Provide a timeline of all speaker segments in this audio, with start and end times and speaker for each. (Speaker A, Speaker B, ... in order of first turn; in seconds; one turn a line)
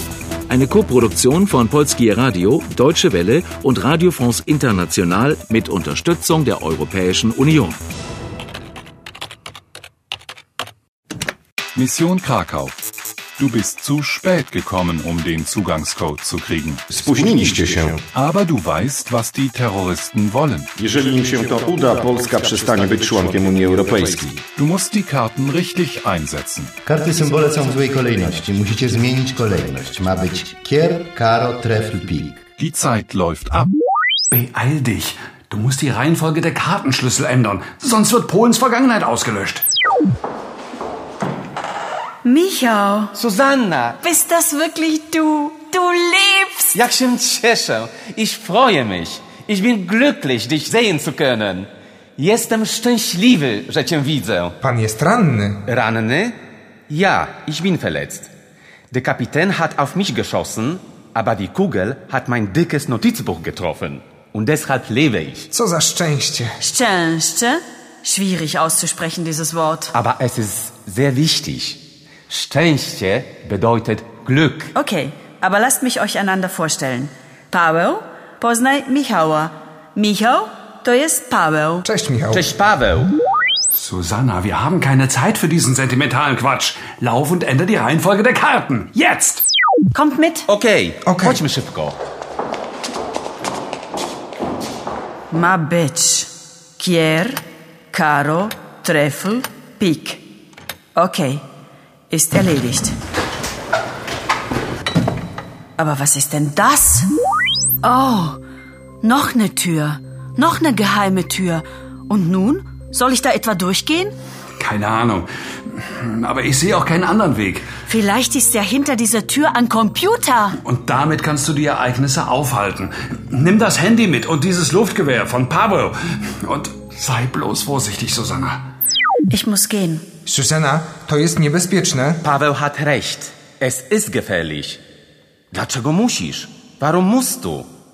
Speaker A: 0.5-7.8
Speaker B: 11.8-12.8
Speaker B: 13.4-16.9
Speaker C: 16.9-18.0
Speaker B: 18.1-20.7
Speaker C: 20.8-24.4
Speaker B: 24.6-26.7
Speaker D: 26.9-32.4
Speaker B: 32.6-33.7
Speaker E: 34.3-39.6
Speaker F: 42.2-43.1
Speaker G: 43.1-44.0
Speaker F: 44.0-46.8
Speaker G: 46.7-54.6
Speaker H: 54.6-55.6
Speaker G: 55.7-56.4
Speaker G: 56.9-58.3
Speaker G: 58.9-65.5
Speaker H: 65.5-66.6
Speaker F: 66.6-69.9
Speaker G: 69.9-74.7
Speaker F: 74.7-81.8
Speaker H: 81.8-82.5
Speaker G: 82.3-83.1
Speaker E: 83.7-89.5
Speaker F: 89.9-90.5
Speaker G: 90.5-92.0
Speaker H: 91.0-91.4
Speaker F: 95.3-100.2
Speaker F: 101.0-101.5
Speaker F: 102.1-103.0
Speaker F: 105.8-107.1
Speaker F: 107.8-108.4
Speaker F: 109.0-114.1
Speaker E: 114.6-117.7
Speaker F: 117.8-120.6
Speaker E: 120.6-128.6
Speaker F: 129.3-130.0
Speaker H: 130.3-132.2
Speaker G: 132.2-134.8
Speaker G: 135.5-137.7